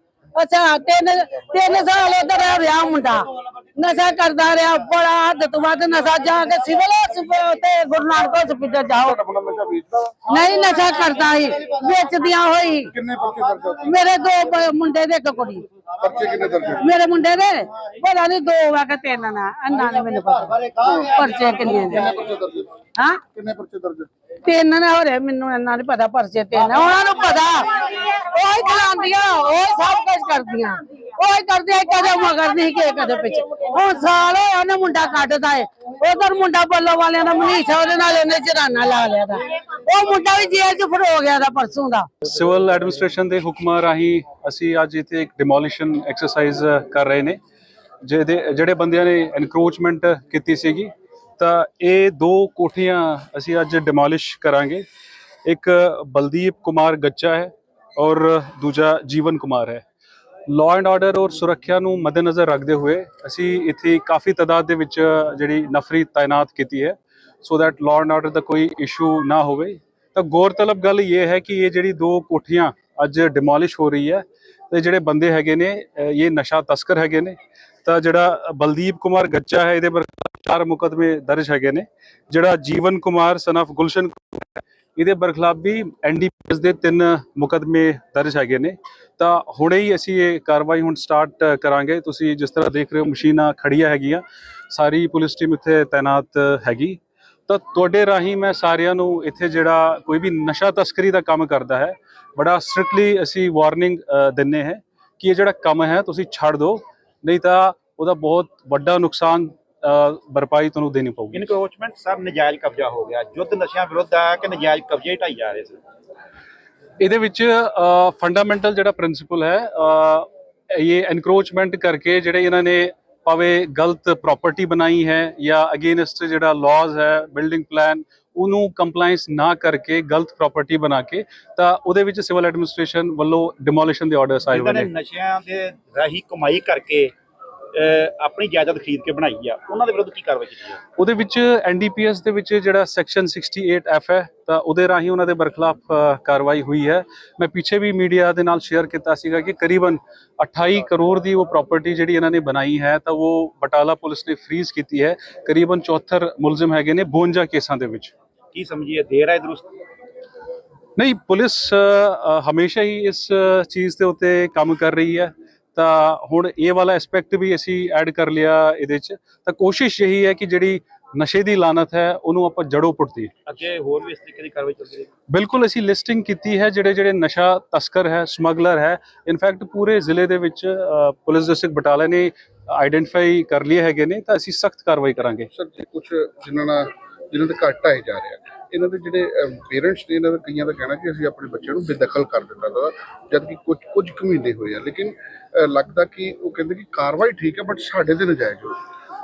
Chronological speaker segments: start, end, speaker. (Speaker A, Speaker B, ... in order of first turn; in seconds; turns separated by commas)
Speaker A: 0.3-9.2, Speaker B: 9.1-10.2, Speaker A: 10.3-12.9, Speaker B: 12.9-13.8, Speaker A: 13.8-15.6, Speaker B: 16.0-16.9, Speaker A: 16.7-22.2, Speaker B: 20.8-21.2, Speaker B: 21.9-22.7, Speaker A: 23.0-23.2, Speaker B: 23.3-24.1, Speaker A: 24.4-42.1, Speaker C: 42.2-47.4, Speaker C: 48.0-54.8, Speaker C: 55.5-59.8, Speaker C: 60.5-111.5, Speaker D: 111.3-115.8, Speaker C: 117.0-134.9, Speaker D: 134.5-137.1, Speaker D: 137.7-140.8, Speaker C: 141.0-158.1, Speaker D: 158.5-159.7, Speaker C: 161.0-173.3, Speaker D: 173.5-175.1, Speaker C: 175.3-185.5, Speaker B: 185.5-198.8